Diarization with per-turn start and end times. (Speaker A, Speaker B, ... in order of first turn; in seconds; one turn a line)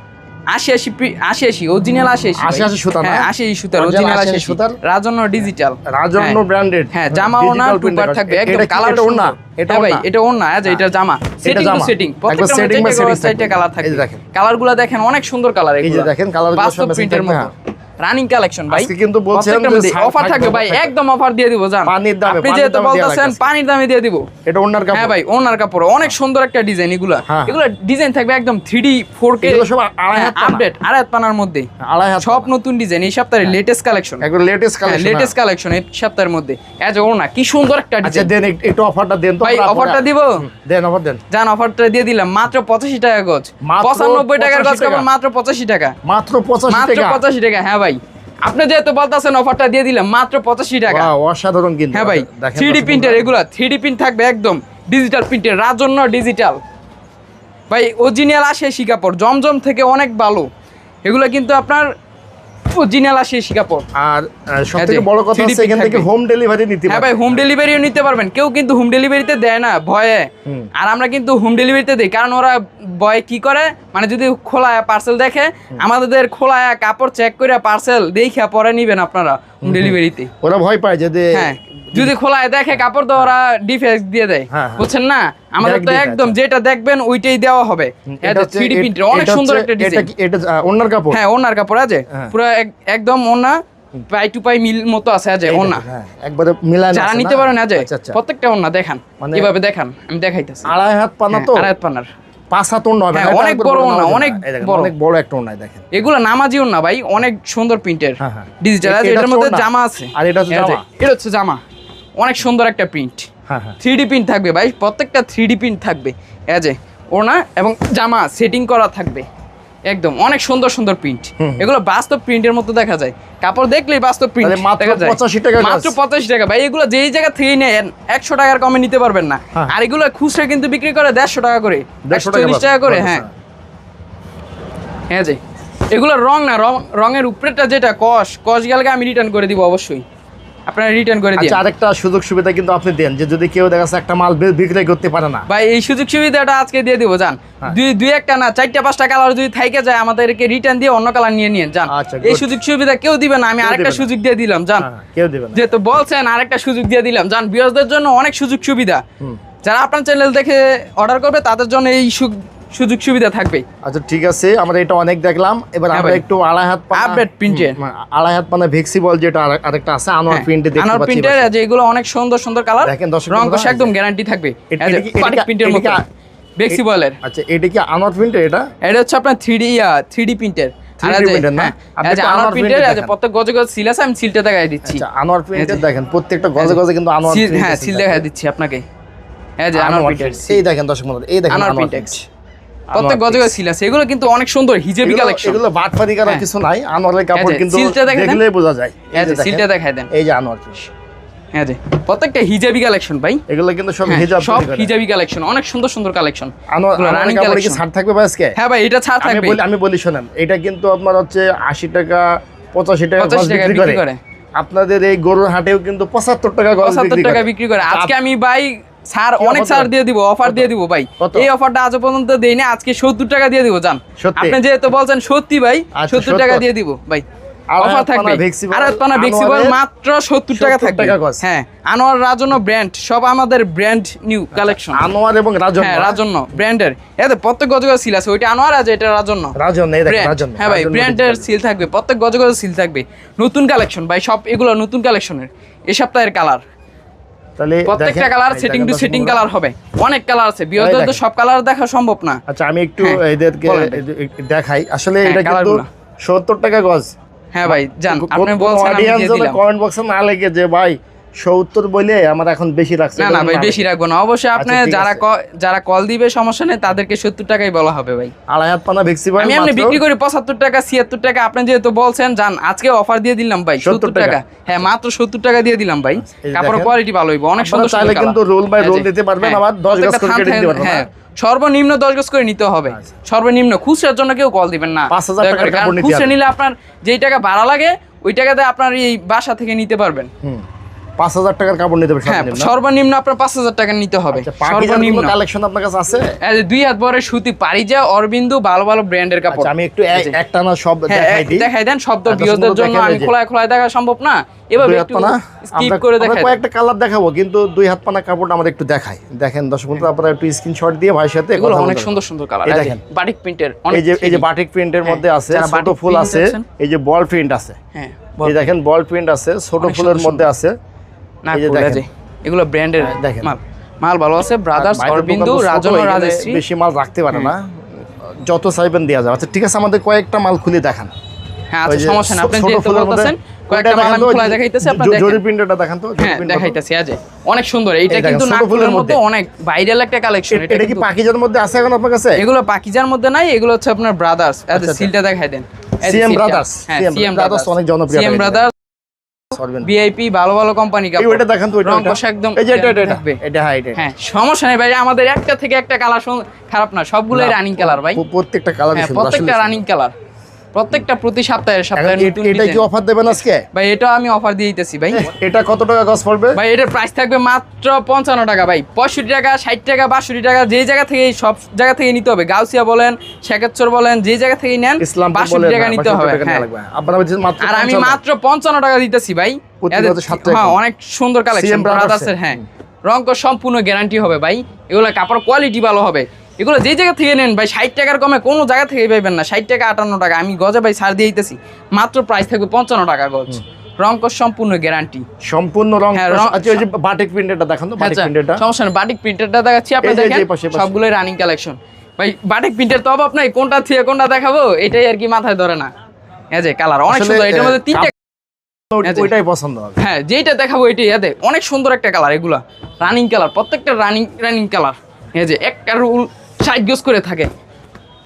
Speaker A: 0.5-6.4
Speaker B: 2.4-4.8
Speaker B: 5.9-10.1
Speaker A: 6.9-24.3
Speaker B: 11.4-14.2
Speaker B: 15.8-17.5
Speaker B: 18.7-20.9
Speaker B: 21.9-23.4
Speaker B: 24.5-25.1
Speaker A: 24.9-31.7
Speaker B: 27.3-27.6
Speaker B: 29.4-30.7
Speaker B: 31.8-32.5
Speaker A: 32.2-34.2
Speaker B: 34.2-35.3
Speaker A: 34.9-38.3
Speaker B: 38.0-41.2
Speaker A: 39.4-40.5
Speaker A: 41.3-46.0
Speaker B: 43.6-45.1
Speaker B: 46.0-47.2
Speaker A: 46.7-51.1
Speaker B: 50.9-53.3
Speaker A: 51.9-56.6
Speaker A: 57.7-60.5
Speaker A: 61.0-61.9
Speaker A: 62.7-63.9
Speaker B: 64.0-67.4
Speaker A: 64.8-66.1
Speaker A: 66.9-80.3
Speaker B: 79.6-82.1
Speaker A: 81.3-90.1
Speaker B: 82.7-83.3
Speaker B: 84.5-84.9
Speaker B: 85.6-86.4
Speaker B: 88.2-91.2
Speaker A: 91.1-93.6
Speaker A: 94.1-95.8
Speaker B: 95.5-98.2
Speaker A: 96.9-100.7
Speaker B: 99.2-99.5
Speaker B: 100.7-101.7
Speaker A: 101.3-102.1
Speaker B: 102.5-105.9
Speaker A: 103.1-104.9
Speaker A: 105.9-111.6
Speaker B: 108.2-110.8
Speaker A: 112.2-113.3
Speaker B: 113.5-113.8
Speaker A: 113.8-119.2
Speaker A: 119.9-133.2
Speaker B: 121.4-121.7
Speaker B: 124.4-126.0
Speaker B: 132.1-133.3
Speaker A: 135.1-135.4
Speaker A: 135.9-140.0
Speaker A: 140.7-141.6
Speaker B: 141.4-145.5
Speaker A: 145.5-154.9
Speaker B: 151.9-152.6
Speaker B: 153.6-154.1
Speaker B: 154.8-155.6
Speaker A: 155.6-159.0
Speaker A: 159.6-163.6
Speaker B: 163.8-171.5
Speaker A: 165.9-166.2
Speaker A: 166.9-167.8
Speaker A: 170.3-176.0
Speaker B: 172.8-173.9
Speaker B: 174.7-176.0
Speaker A: 176.6-177.2
Speaker B: 176.7-178.7
Speaker A: 178.8-185.0
Speaker B: 181.0-183.1
Speaker B: 184.9-188.2
Speaker A: 185.6-185.8
Speaker A: 186.6-188.8
Speaker A: 189.6-190.6
Speaker B: 189.8-192.2
Speaker A: 191.5-192.2
Speaker B: 192.9-193.6
Speaker A: 192.9-195.6
Speaker B: 195.0-200.9
Speaker A: 197.3-198.4
Speaker A: 199.1-200.1
Speaker A: 201.5-203.4
Speaker B: 203.5-204.9
Speaker A: 204.1-207.8
Speaker B: 206.7-208.6
Speaker A: 208.6-209.6
Speaker B: 209.2-214.0
Speaker A: 213.2-214.2
Speaker B: 214.6-218.2
Speaker A: 216.8-227.2
Speaker B: 219.4-219.9
Speaker B: 220.4-221.5
Speaker B: 224.2-224.6
Speaker B: 226.0-226.7
Speaker B: 227.7-229.8
Speaker A: 227.8-235.0
Speaker B: 230.5-231.4
Speaker B: 234.5-236.2
Speaker A: 235.8-239.5
Speaker B: 239.6-241.4
Speaker A: 240.1-246.6
Speaker B: 247.6-249.5
Speaker A: 247.9-252.4
Speaker B: 250.8-251.2
Speaker B: 252.5-257.1
Speaker A: 253.0-254.0
Speaker A: 255.2-255.9
Speaker A: 257.5-259.6
Speaker B: 257.7-263.9
Speaker A: 263.2-268.3
Speaker B: 264.6-265.2
Speaker B: 268.5-270.0
Speaker A: 269.4-290.3
Speaker B: 273.8-274.9
Speaker B: 276.3-276.9
Speaker B: 277.6-281.1
Speaker B: 285.1-286.4
Speaker B: 291.2-292.7
Speaker A: 292.3-295.3
Speaker B: 294.3-296.4
Speaker A: 296.4-300.4
Speaker B: 299.5-301.7
Speaker A: 301.1-306.6
Speaker B: 302.3-303.3
Speaker B: 304.8-313.0
Speaker A: 311.6-314.4
Speaker B: 313.9-317.8
Speaker A: 315.0-316.6
Speaker A: 317.9-318.6
Speaker B: 318.4-320.7
Speaker A: 319.8-320.5
Speaker A: 321.4-326.6
Speaker B: 321.5-322.0
Speaker B: 323.0-323.5
Speaker B: 324.8-331.1
Speaker A: 331.7-335.4
Speaker B: 331.9-336.8
Speaker A: 336.2-341.1
Speaker B: 338.1-339.2
Speaker B: 340.5-342.4
Speaker A: 342.4-348.7
Speaker B: 344.7-345.1
Speaker B: 346.0-348.7
Speaker B: 349.5-349.9
Speaker A: 349.8-353.4
Speaker B: 351.2-354.1
Speaker A: 354.0-358.2
Speaker B: 357.3-359.8
Speaker A: 358.9-360.1
Speaker A: 360.7-362.8
Speaker B: 362.0-363.6
Speaker A: 363.7-365.3
Speaker B: 365.1-366.6
Speaker A: 366.6-376.7
Speaker B: 375.0-378.2
Speaker A: 377.6-395.2
Speaker B: 379.8-380.8
Speaker B: 381.5-382.6
Speaker B: 395.4-398.6
Speaker A: 396.1-396.8
Speaker A: 398.0-405.9
Speaker B: 400.0-400.9
Speaker A: 406.5-408.1
Speaker B: 407.1-408.1
Speaker B: 408.9-410.0
Speaker A: 409.0-409.3
Speaker A: 410.0-417.5